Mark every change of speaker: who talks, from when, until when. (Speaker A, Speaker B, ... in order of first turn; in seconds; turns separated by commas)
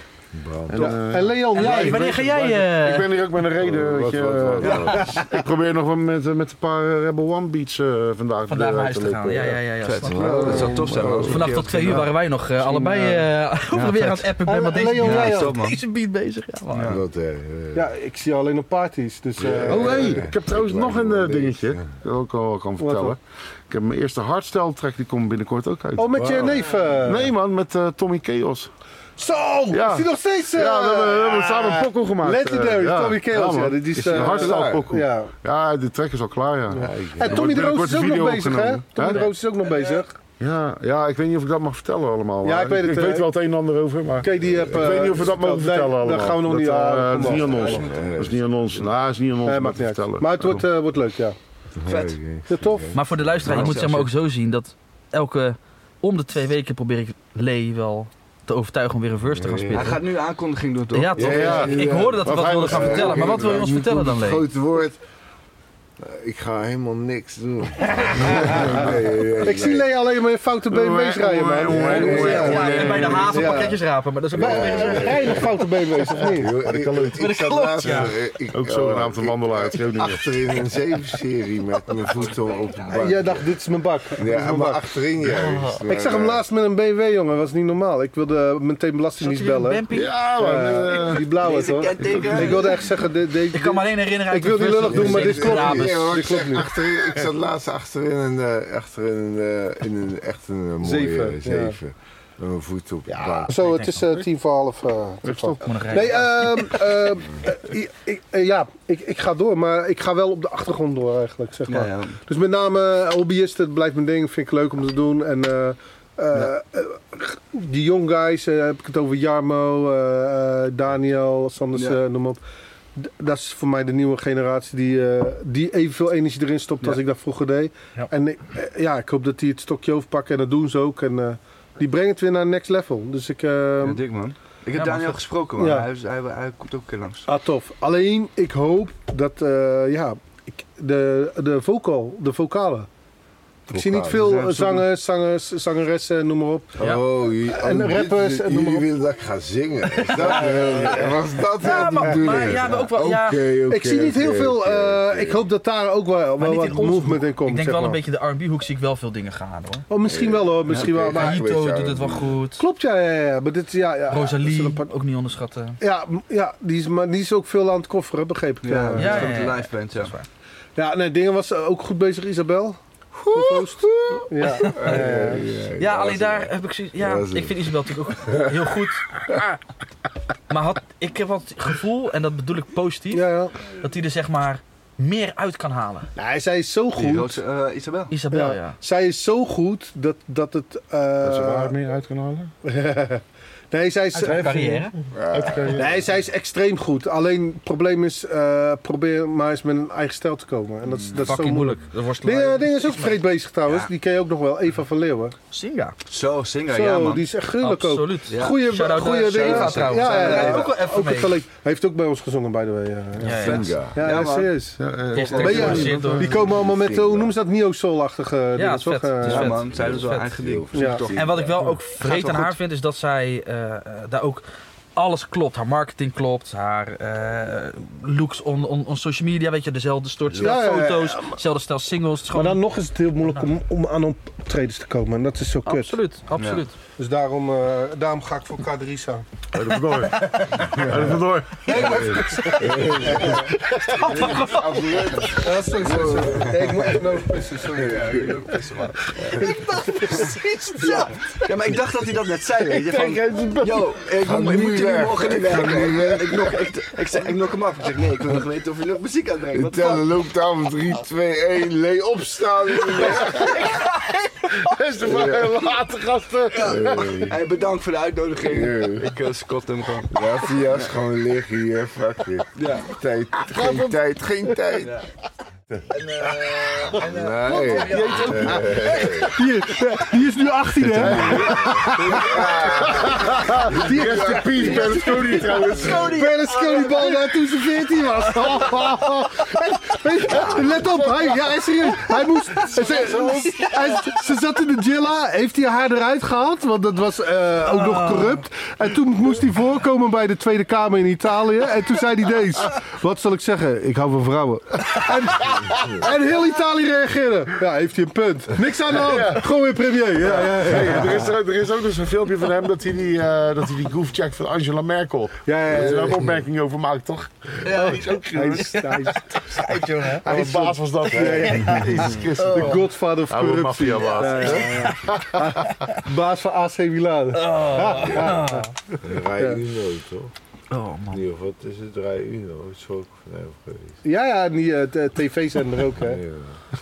Speaker A: 0.3-1.0, Speaker B: 0.7-9.6, Speaker C: 0.8-2.6, Speaker D: 1.5-3.1, Speaker A: 3.6-5.2, Speaker E: 4.6-5.0, Speaker D: 4.9-5.2, Speaker D: 8.5-10.7, Speaker E: 9.8-12.1, Speaker A: 10.0-11.6, Speaker C: 10.2-10.9, Speaker B: 10.6-11.2, Speaker D: 11.2-17.0, Speaker B: 11.9-13.2, Speaker E: 13.7-14.3, Speaker C: 14.4-15.6, Speaker E: 14.9-15.8, Speaker E: 16.7-17.0, Speaker A: 16.9-17.9, Speaker C: 17.7-20.2, Speaker A: 19.4-21.9, Speaker B: 19.7-28.7, Speaker C: 22.8-23.1, Speaker C: 26.0-27.3, Speaker A: 26.1-26.6, Speaker C: 29.2-35.3, Speaker B: 29.7-39.3, Speaker A: 33.9-35.0, Speaker C: 36.7-40.1, Speaker A: 36.8-37.6, Speaker D: 39.0-39.3, Speaker B: 40.4-50.6, Speaker C: 42.4-43.3, Speaker C: 44.2-47.8, Speaker A: 44.3-45.2, Speaker A: 47.2-48.9, Speaker E: 47.4-47.8, Speaker C: 49.5-51.4, Speaker A: 51.8-54.1, Speaker E: 51.9-52.2, Speaker C: 52.5-53.0, Speaker D: 52.9-60.0, Speaker E: 53.5-53.9, Speaker A: 59.3-60.0, Speaker E: 59.7-61.9, Speaker D: 60.9-64.5, Speaker A: 61.1-65.0, Speaker B: 61.3-63.7, Speaker A: 66.0-69.9, Speaker D: 67.8-68.8, Speaker C: 68.3-73.8, Speaker B: 70.7-73.4, Speaker A: 71.7-73.7, Speaker D: 71.7-75.6, Speaker A: 74.3-75.5, Speaker C: 74.4-76.5, Speaker A: 76.2-83.5, Speaker B: 76.2-77.2, Speaker D: 77.2-78.2, Speaker B: 77.8-80.3, Speaker C: 82.9-84.9, Speaker A: 84.2-86.4, Speaker D: 85.2-85.8, Speaker C: 85.9-89.8, Speaker D: 89.2-90.2, Speaker B: 89.9-91.2, Speaker C: 90.4-96.8, Speaker E: 91.2-92.9, Speaker D: 93.5-96.5, Speaker A: 94.8-103.5, Speaker C: 100.8-101.8, Speaker C: 103.1-122.4, Speaker D: 103.5-104.2, Speaker B: 105.2-106.1, Speaker D: 105.6-106.8, Speaker E: 111.7-112.2, Speaker C: 123.0-134.0, Speaker E: 133.8-137.3, Speaker D: 134.8-135.2, Speaker C: 135.6-135.9, Speaker C: 137.3-142.9, Speaker A: 143.7-144.4, Speaker C: 143.7-146.9, Speaker E: 144.1-144.8, Speaker A: 146.8-155.4, Speaker C: 147.4-148.9, Speaker C: 150.1-151.1, Speaker D: 151.6-153.4, Speaker C: 151.9-152.4, Speaker C: 153.7-158.0, Speaker D: 156.4-159.8, Speaker C: 159.9-161.4, Speaker A: 160.1-162.4, Speaker D: 160.8-162.6, Speaker C: 162.6-164.9, Speaker D: 164.1-165.8, Speaker C: 165.8-169.5, Speaker E: 168.7-170.1, Speaker D: 169.0-170.3, Speaker C: 170.8-172.8, Speaker A: 173.2-178.7, Speaker C: 173.3-175.4, Speaker D: 174.4-175.0, Speaker D: 175.8-179.6, Speaker D: 180.5-183.2, Speaker C: 183.1-183.6, Speaker D: 183.8-186.1, Speaker C: 186.2-187.4, Speaker E: 187.0-188.1, Speaker D: 188.1-188.8, Speaker C: 188.3-191.7, Speaker B: 191.2-192.5, Speaker C: 192.6-194.9, Speaker D: 194.1-194.9, Speaker A: 195.1-195.9, Speaker B: 195.3-196.0, Speaker C: 195.7-205.3, Speaker D: 201.2-203.2, Speaker D: 205.5-206.0, Speaker E: 206.1-207.2, Speaker C: 206.7-214.8, Speaker D: 207.6-211.4, Speaker E: 208.3-210.8, Speaker D: 213.2-213.8, Speaker E: 213.3-214.6, Speaker A: 213.4-214.0, Speaker B: 214.8-216.3, Speaker E: 215.1-216.1, Speaker D: 215.1-216.4, Speaker C: 215.4-219.6, Speaker A: 216.2-217.3, Speaker D: 218.6-220.3, Speaker E: 219.2-222.6, Speaker A: 219.7-221.5, Speaker C: 220.7-221.0, Speaker D: 221.1-224.4, Speaker D: 224.9-232.6, Speaker C: 230.4-231.4, Speaker C: 232.3-236.0, Speaker D: 235.7-236.8, Speaker E: 236.4-236.6, Speaker C: 237.0-239.2, Speaker B: 239.5-242.5, Speaker D: 239.9-240.4, Speaker C: 240.1-243.5, Speaker E: 241.7-242.1, Speaker A: 242.5-243.4, Speaker D: 243.8-245.3, Speaker A: 244.0-248.7, Speaker E: 244.9-245.2, Speaker C: 245.3-248.6, Speaker E: 247.8-249.4, Speaker C: 249.3-251.1, Speaker E: 250.0-260.1, Speaker B: 252.7-253.9, Speaker A: 254.0-256.6, Speaker A: 259.5-263.6, Speaker E: 263.0-263.4, Speaker B: 263.1-263.9, Speaker D: 263.7-264.1, Speaker B: 264.5-267.3, Speaker A: 265.0-265.6, Speaker E: 266.6-270.2, Speaker A: 266.6-267.4, Speaker A: 268.4-269.1, Speaker A: 270.1-274.9, Speaker E: 272.6-272.9, Speaker B: 273.4-274.0, Speaker E: 274.8-275.1, Speaker E: 275.9-279.3, Speaker A: 276.9-279.4, Speaker D: 277.8-278.4, Speaker B: 277.9-278.3, Speaker C: 279.2-282.6, Speaker B: 280.8-286.2, Speaker A: 281.0-285.8, Speaker E: 281.0-281.5, Speaker C: 283.6-311.3, Speaker D: 284.6-289.2, Speaker B: 290.3-291.4, Speaker D: 292.1-294.2, Speaker D: 297.6-298.4, Speaker A: 305.7-306.0, Speaker B: 308.9-309.5, Speaker B: 310.2-318.8, Speaker C: 315.5-316.3, Speaker A: 315.7-316.4, Speaker D: 317.6-318.1, Speaker C: 318.3-319.4, Speaker D: 318.6-320.2, Speaker B: 320.2-325.7, Speaker C: 320.2-328.7, Speaker D: 322.4-322.8, Speaker D: 324.1-325.1, Speaker D: 327.3-328.7, Speaker A: 329.0-330.3, Speaker C: 329.4-329.6, Speaker D: 330.7-331.2, Speaker A: 331.1-334.0, Speaker C: 334.0-336.2, Speaker A: 335.9-336.6